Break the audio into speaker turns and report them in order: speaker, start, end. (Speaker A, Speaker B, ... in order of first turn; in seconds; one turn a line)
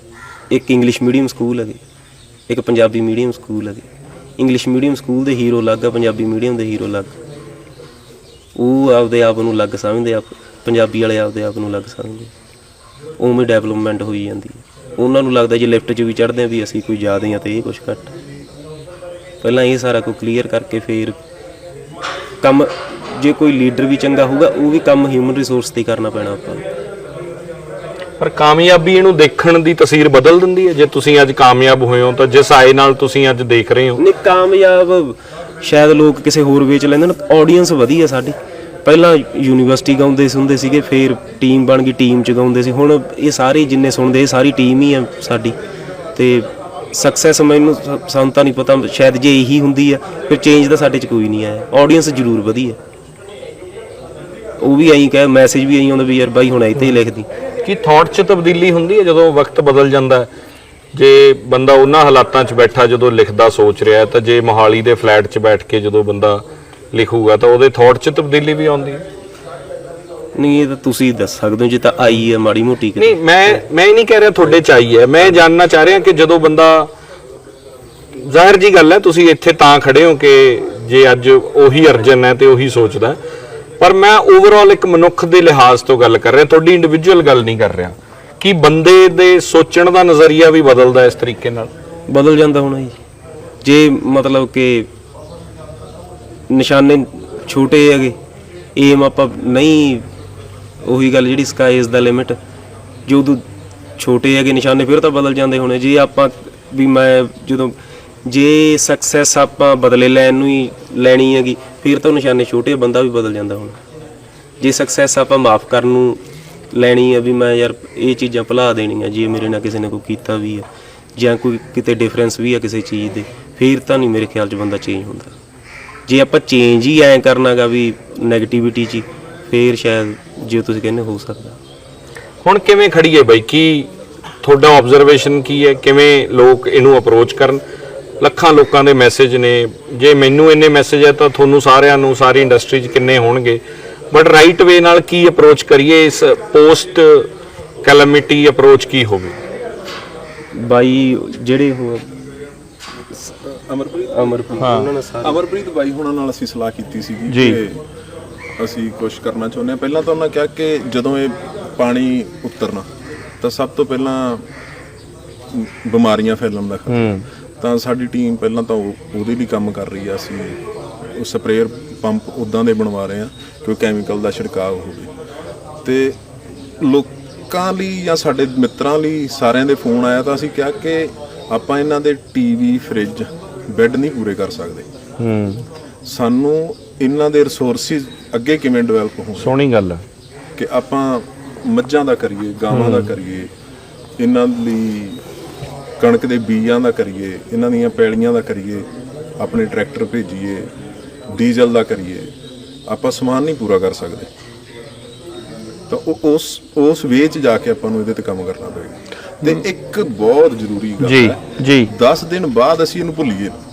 Speaker A: 0.5-1.8
Speaker A: 2.5-3.9
Speaker A: 4.4-7.1
Speaker A: 8.6-12.3
Speaker A: 13.2-18.1
Speaker A: 19.4-21.2
Speaker A: 22.4-26.6
Speaker B: 28.2-34.0
Speaker A: 34.0-45.6
Speaker A: 46.2-52.8
Speaker A: 54.6-57.3
Speaker B: 57.6-60.3
Speaker B: 60.9-69.0
Speaker A: 70.3-73.6
Speaker B: 73.0-76.9
Speaker B: 78.2-83.2
Speaker B: 83.8-91.7
Speaker A: 92.1-93.0
Speaker A: 93.6-94.9
Speaker A: 96.5-98.2
Speaker A: 98.8-100.0
Speaker A: 100.8-102.4
Speaker A: 103.1-103.4
Speaker A: 104.0-107.8
Speaker A: 108.3-113.8
Speaker A: 114.6-116.2
Speaker A: 116.7-125.3
Speaker A: 126.1-131.6
Speaker B: 132.4-133.9
Speaker B: 134.4-137.6
Speaker B: 138.2-143.6
Speaker B: 144.1-147.3
Speaker B: 147.8-149.4
Speaker A: 150.5-152.1
Speaker C: 153.5-157.8
Speaker A: 154.1-155.4
Speaker B: 154.6-154.9
Speaker B: 157.3-157.6
Speaker C: 158.6-162.9
Speaker C: 163.4-164.4
Speaker C: 165.5-170.6
Speaker B: 166.9-167.2
Speaker C: 171.2-175.1
Speaker C: 175.8-176.2
Speaker C: 176.8-184.9
Speaker B: 185.2-185.7
Speaker C: 186.1-189.5
Speaker B: 189.4-190.0
Speaker C: 190.6-193.5
Speaker B: 192.7-193.1
Speaker C: 194.2-195.2
Speaker C: 196.0-198.9
Speaker C: 199.4-200.7
Speaker C: 201.3-202.3
Speaker C: 202.9-204.3
Speaker C: 205.9-213.6
Speaker B: 211.0-211.9